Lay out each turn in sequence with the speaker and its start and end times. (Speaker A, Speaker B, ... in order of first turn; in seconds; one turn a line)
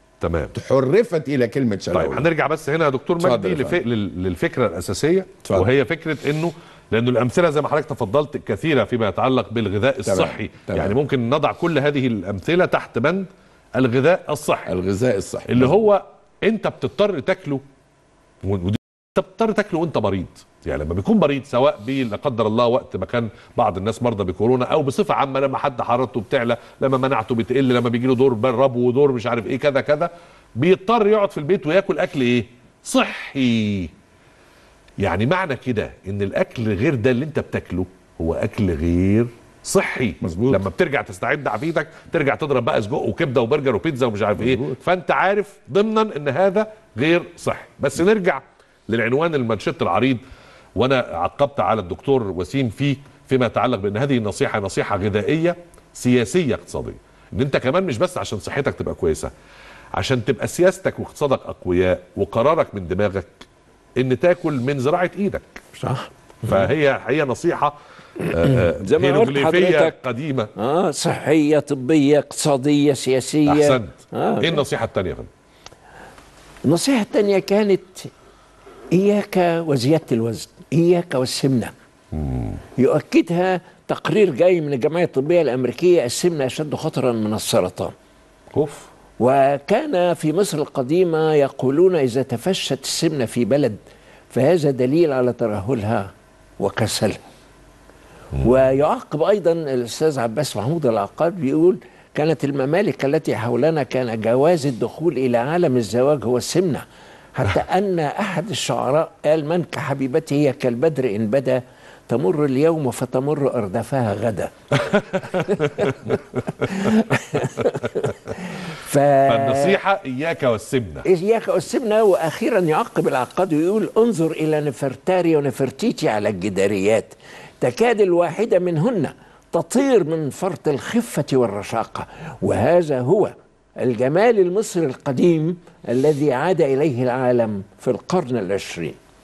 Speaker A: 0.2-0.5
Speaker B: 0.5-2.3
Speaker A: 1.9-14.7
Speaker B: 3.2-3.8
Speaker B: 10.0-11.0
Speaker B: 14.7-15.8
Speaker A: 15.5-17.6
Speaker A: 18.4-33.9
Speaker A: 35.0-50.2
Speaker B: 40.2-40.6
Speaker B: 44.4-44.8
Speaker A: 50.8-59.3
Speaker A: 59.9-63.4
Speaker A: 64.0-65.6
Speaker C: 65.7-66.5
Speaker A: 66.4-67.7
Speaker C: 68.2-70.0
Speaker A: 68.2-70.5
Speaker C: 70.5-74.6
Speaker A: 73.5-75.3
Speaker C: 76.6-78.1
Speaker C: 78.9-81.7
Speaker A: 82.1-82.6
Speaker C: 82.8-87.9
Speaker A: 88.5-88.9
Speaker C: 89.2-93.8
Speaker C: 94.3-96.1
Speaker C: 96.6-97.2
Speaker C: 98.4-114.5
Speaker A: 114.7-117.0
Speaker C: 115.2-119.8
Speaker A: 119.3-121.0
Speaker C: 121.0-139.0